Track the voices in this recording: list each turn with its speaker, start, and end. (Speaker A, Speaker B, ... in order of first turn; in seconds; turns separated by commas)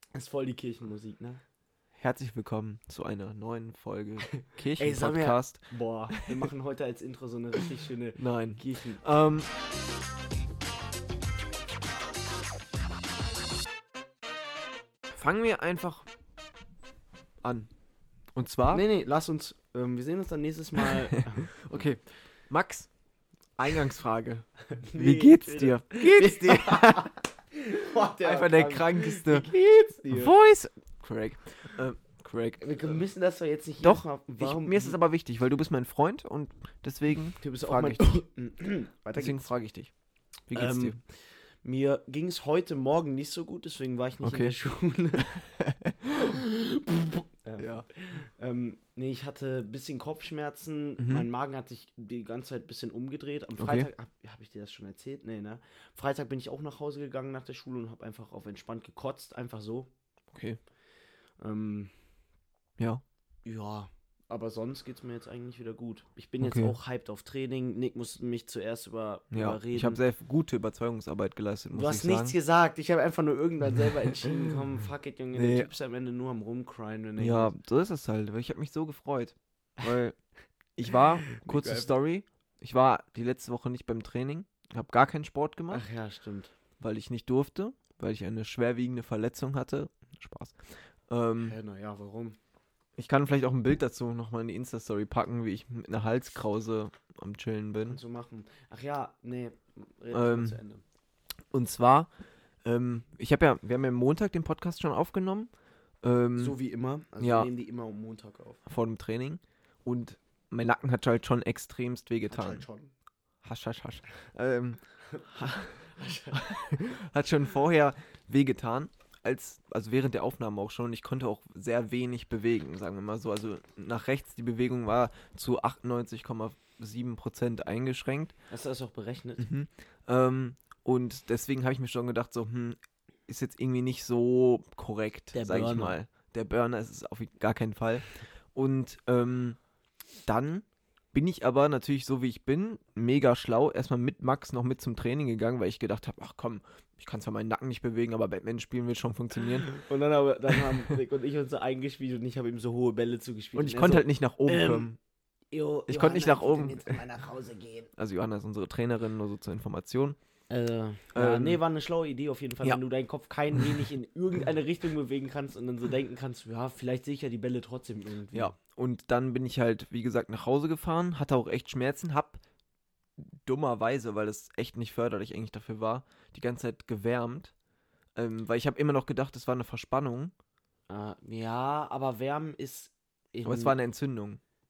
Speaker A: 0.1-1.4, Speaker B: 2.0-6.4, Speaker A: 4.3-9.0, Speaker B: 8.2-9.5, Speaker B: 15.1-16.1, Speaker B: 17.4-17.7, Speaker B: 18.3-18.9, Speaker A: 18.7-21.8, Speaker B: 20.9-22.9, Speaker B: 23.6-27.1, Speaker A: 24.7-30.3, Speaker B: 28.2-33.0, Speaker A: 32.6-35.0, Speaker B: 33.8-38.2, Speaker A: 37.4-39.5, Speaker B: 39.1-39.9, Speaker B: 40.5-41.0, Speaker A: 40.5-45.4, Speaker B: 44.2-44.6, Speaker B: 45.2-46.4, Speaker A: 46.8-59.9, Speaker B: 47.6-47.9, Speaker B: 51.0-51.2, Speaker B: 53.6-53.9, Speaker B: 60.3-60.6, Speaker A: 61.4-61.9, Speaker B: 62.8-63.0, Speaker A: 63.5-70.0, Speaker B: 66.4-66.8, Speaker B: 69.3-72.4, Speaker A: 71.7-77.6, Speaker B: 73.8-74.5, Speaker B: 75.3-75.7, Speaker B: 77.2-80.2, Speaker B: 80.8-85.9, Speaker A: 81.3-81.9, Speaker A: 85.7-86.5, Speaker B: 86.8-91.6, Speaker A: 91.4-92.4, Speaker B: 93.0-98.0, Speaker A: 97.8-100.8, Speaker B: 100.1-100.6, Speaker B: 101.5-102.1, Speaker B: 102.7-105.5, Speaker B: 106.0-106.6, Speaker A: 106.4-108.6, Speaker B: 107.2-107.5, Speaker B: 108.7-112.7, Speaker A: 112.3-112.9, Speaker B: 113.4-128.3, Speaker A: 115.1-116.4, Speaker A: 128.5-129.5, Speaker B: 129.4-139.6, Speaker A: 135.3-135.9, Speaker B: 140.2-149.7, Speaker A: 149.7-154.9, Speaker B: 153.5-155.0, Speaker A: 155.5-157.9, Speaker B: 155.9-157.0, Speaker B: 158.0-160.2, Speaker A: 160.5-168.5, Speaker B: 161.1-161.6, Speaker B: 163.5-163.8, Speaker B: 168.3-172.4, Speaker B: 173.2-177.5, Speaker B: 178.2-180.3, Speaker A: 180.9-183.8, Speaker B: 183.4-184.4